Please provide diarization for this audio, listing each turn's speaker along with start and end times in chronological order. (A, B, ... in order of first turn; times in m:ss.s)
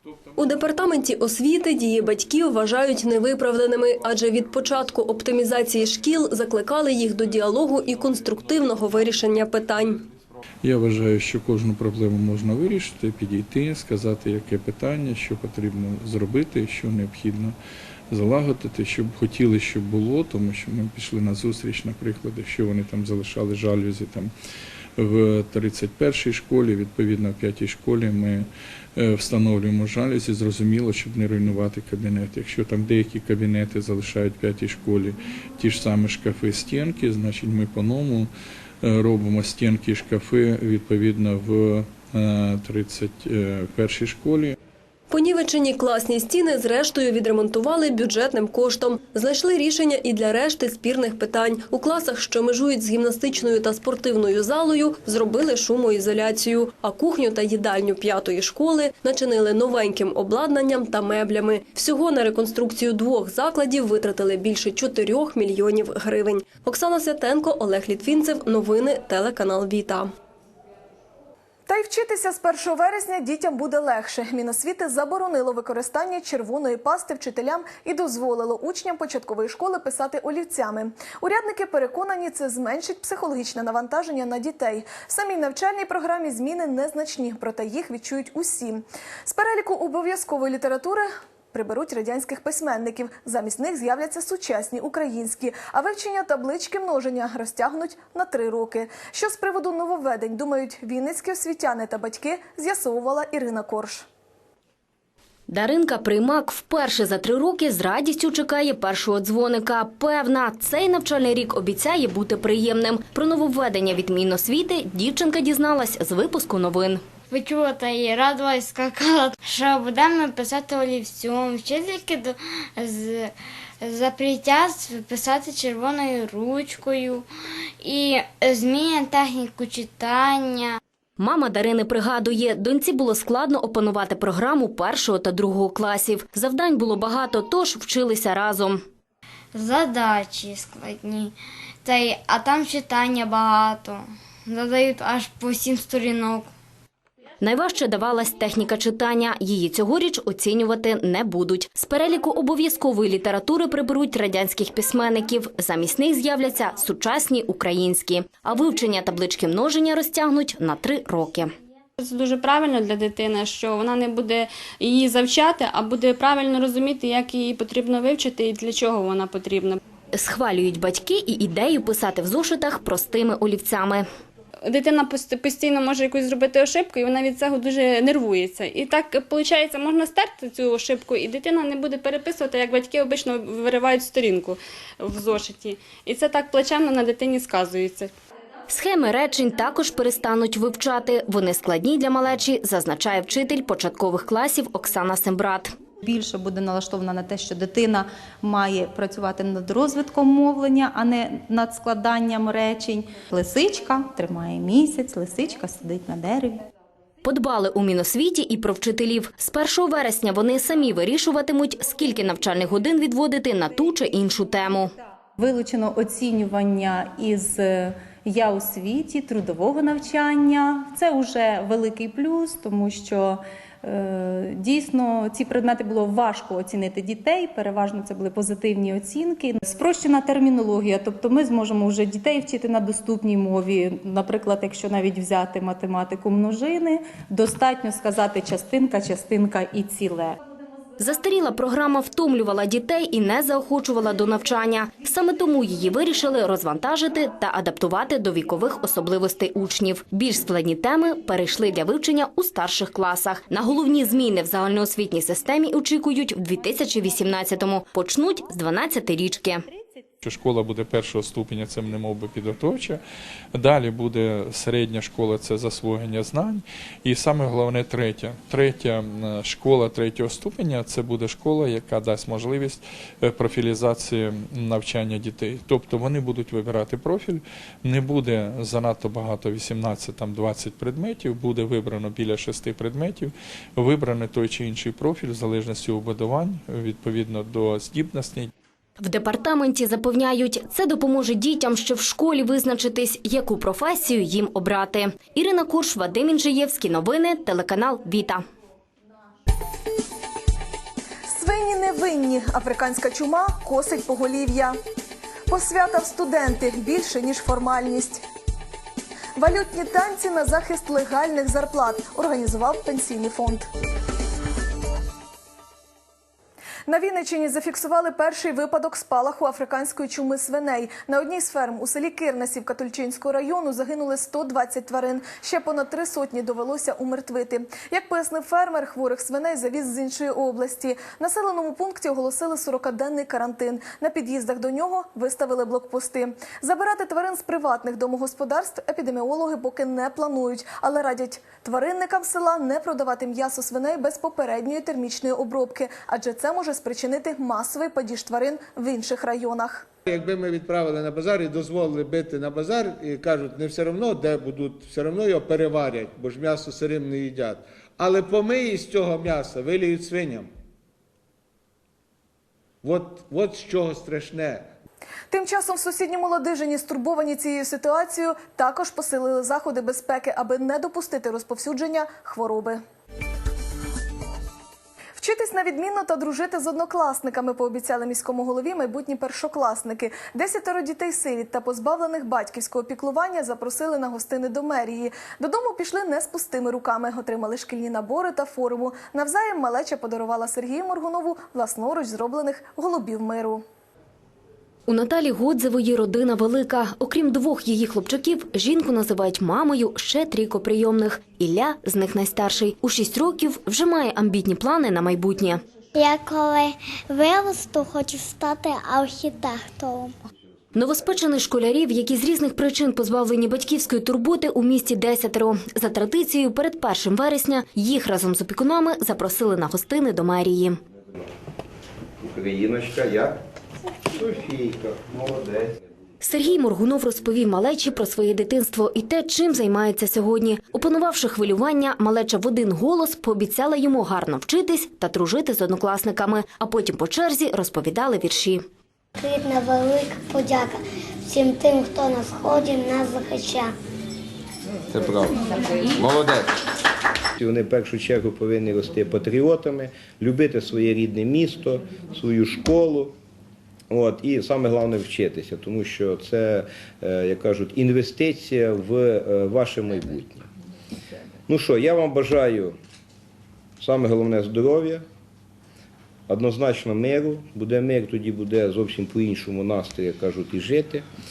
0:00.4-0:10.0 A
0:10.6-0:17.6 B
0:18.1-0:24.3 B
0:25.0-0:38.3 B
0:38.8-0:44.6 B
0:45.1-1:10.1 A
1:11.7-1:44.0 C
1:45.5-1:57.0 D
1:57.3-2:07.2 E
2:07.8-2:10.8 E
2:11.2-2:18.8 D
2:19.5-2:26.5 E
2:27.4-2:41.5 D
2:42.0-2:49.8 F
2:50.1-2:54.0 D
2:54.7-3:08.1 F
3:08.7-3:15.7 D
3:16.0-3:26.6 G
3:27.2-3:34.9 D
3:35.4-4:00.4 G
4:01.0-4:19.7 D
4:20.2-4:23.0 B
4:23.5-4:48.5 B
4:49.0-4:58.4 D
5:01.3-5:04.8 C
5:05.5-5:08.2 C
5:09.4-5:13.6 C
5:16.9-5:49.9 C
5:50.0-6:00.5 H
6:02.8-6:04.7 H
6:05.3-6:12.8 C
6:15.2-6:33.6 C
6:34.9-6:45.6 D
6:45.9-6:50.2 I
6:50.7-7:00.8 D
7:02.2-7:03.4 J
7:04.1-7:05.8 J
7:06.2-7:18.6 D
7:19.2-7:23.7 I
7:27.4-7:33.1 J
7:33.9-7:40.5 J
7:41.5-7:42.8 J
7:43.8-7:45.0 J
7:46.3-7:51.1 J